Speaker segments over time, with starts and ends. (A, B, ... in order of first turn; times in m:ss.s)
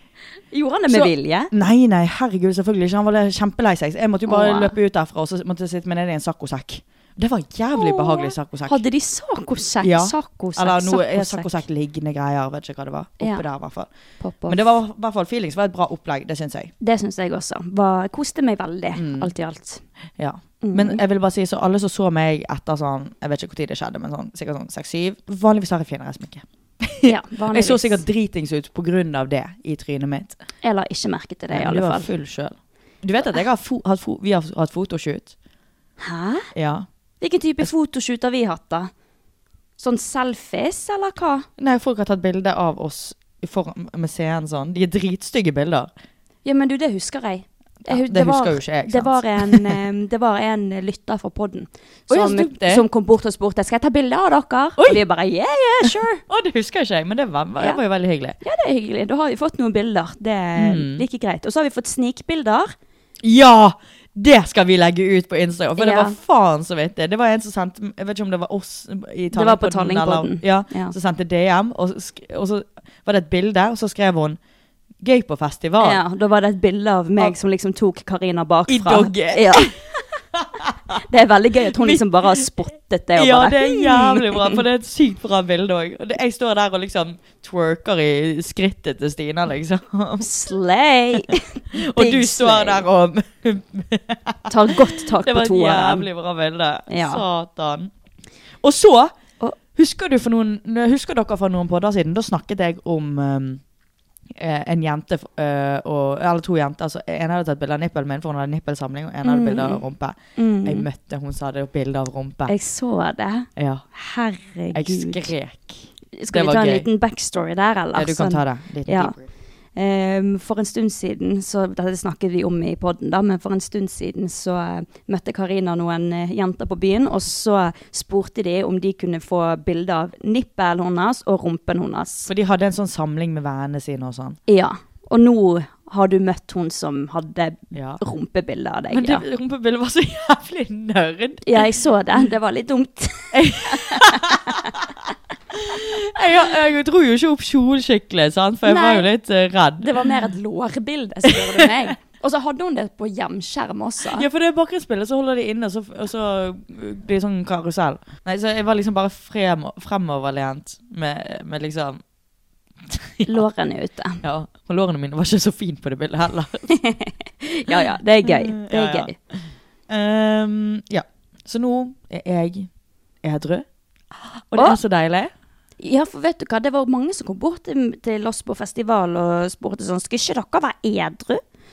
0:00.5-0:01.5 A
0:00.9-0:08.8 B
0:04.2-0:04.7 A
0:07.7-0:11.6 A
0:09.8-0:13.9 B
0:13.2-0:13.4 A
0:14.2-0:14.7 A
0:14.5-0:16.7 B
0:16.8-0:19.8 A
0:18.9-0:19.3 B
0:20.2-0:30.4 B
0:20.6-0:21.0 A
0:27.0-0:28.0 A
0:30.6-0:32.1 A
0:31.5-0:35.3 B
0:36.0-0:36.5 A
0:36.5-0:36.9 B
0:37.2-0:38.9 A
0:39.8-0:41.5 A
0:41.6-0:45.9 B
0:46.4-0:56.2 A
0:47.8-0:49.8 B
0:52.1-0:52.8 B
0:55.8-0:58.4 B
0:58.4-1:02.7 A
1:00.6-1:01.0 B
1:03.2-1:14.4 B
1:05.8-1:06.2 A
1:09.3-1:10.9 A
1:15.0-1:16.0 B
1:15.8-1:19.8 A
1:18.7-1:19.8 B
1:20.4-1:21.0 B
1:21.0-1:24.6 A
1:21.7-1:22.4 B
1:23.2-1:30.3 B
1:30.2-1:32.8 A
1:31.7-1:37.9 B
1:34.5-1:36.1 A
1:36.9-1:37.2 A
1:38.6-1:39.1 B
1:39.7-1:43.6 B
1:44.3-1:52.5 B
1:49.2-1:49.8 A
1:50.4-1:50.9 A
1:52.5-1:55.3 A
1:53.6-1:53.8 B
1:54.7-1:56.9 B
1:56.2-1:59.2 A
1:57.9-1:59.3 B
1:59.8-2:12.3 A
2:12.3-2:14.4 B
2:14.5-2:19.2 A
2:17.7-2:18.0 B
2:18.9-2:21.6 B
2:21.4-2:24.8 A
2:23.3-2:24.8 B
2:25.5-2:30.0 B
2:28.6-2:29.1 A
2:29.8-2:34.3 A
2:31.3-2:31.9 B
2:34.1-2:42.0 B
2:42.9-2:43.4 B
2:43.2-2:44.2 A
2:44.2-2:46.7 B
2:46.7-2:49.1 A
2:47.7-2:52.7 B
2:53.2-2:53.6 B
2:54.5-2:55.3 B
2:55.8-3:01.4 A